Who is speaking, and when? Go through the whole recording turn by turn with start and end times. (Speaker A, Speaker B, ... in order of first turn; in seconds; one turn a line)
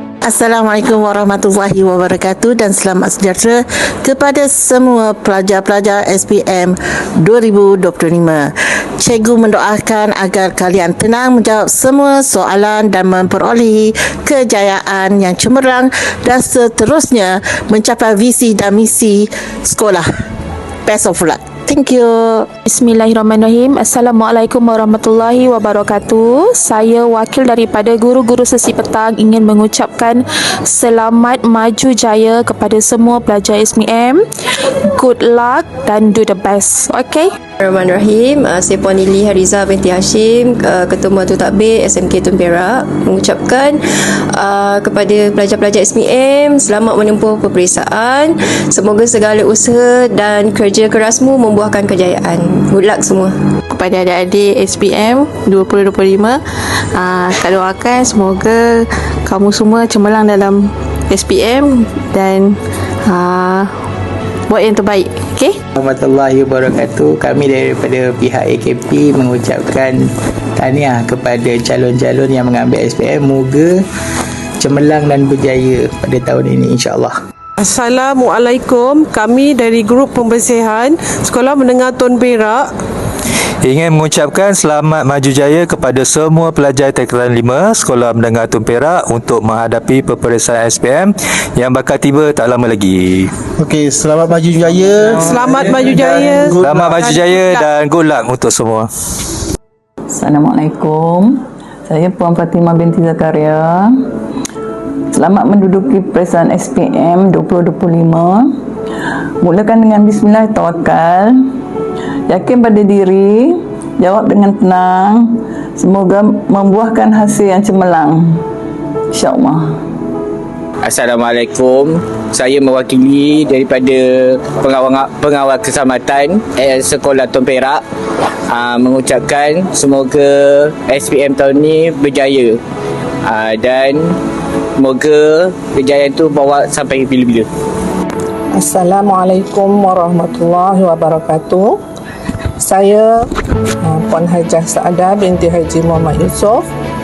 Speaker A: 0.2-20.1
Speaker A: 20.9-22.5
Speaker B: 22.6-34.2
Speaker B: 34.9-37.3
Speaker C: 37.6-53.4
Speaker D: 53.7-56.4
Speaker D: 57.0-63.7
Speaker D: 64.5-65.5
Speaker E: 65.8-73.8
Speaker E: 74.6-77.2
Speaker F: 77.6-82.7
Speaker G: 83.6-93.3
Speaker E: 93.6-95.3
Speaker F: 94.9-97.7
Speaker E: 96.1-96.8
Speaker G: 96.6-98.9
Speaker H: 100.1-104.0
Speaker H: 105.1-108.5
Speaker H: 109.4-111.4
Speaker H: 112.3-118.4
Speaker H: 119.1-119.7
Speaker I: 122.5-122.9
Speaker G: 123.2-123.7
Speaker I: 124.8-127.6
Speaker I: 128.7-130.1
Speaker G: 130.9-131.3
Speaker I: 131.8-132.5
Speaker I: 133.6-133.8
Speaker I: 135.0-135.3
Speaker I: 135.9-137.1
Speaker J: 138.5-141.8
Speaker J: 142.6-143.2
Speaker J: 143.8-146.7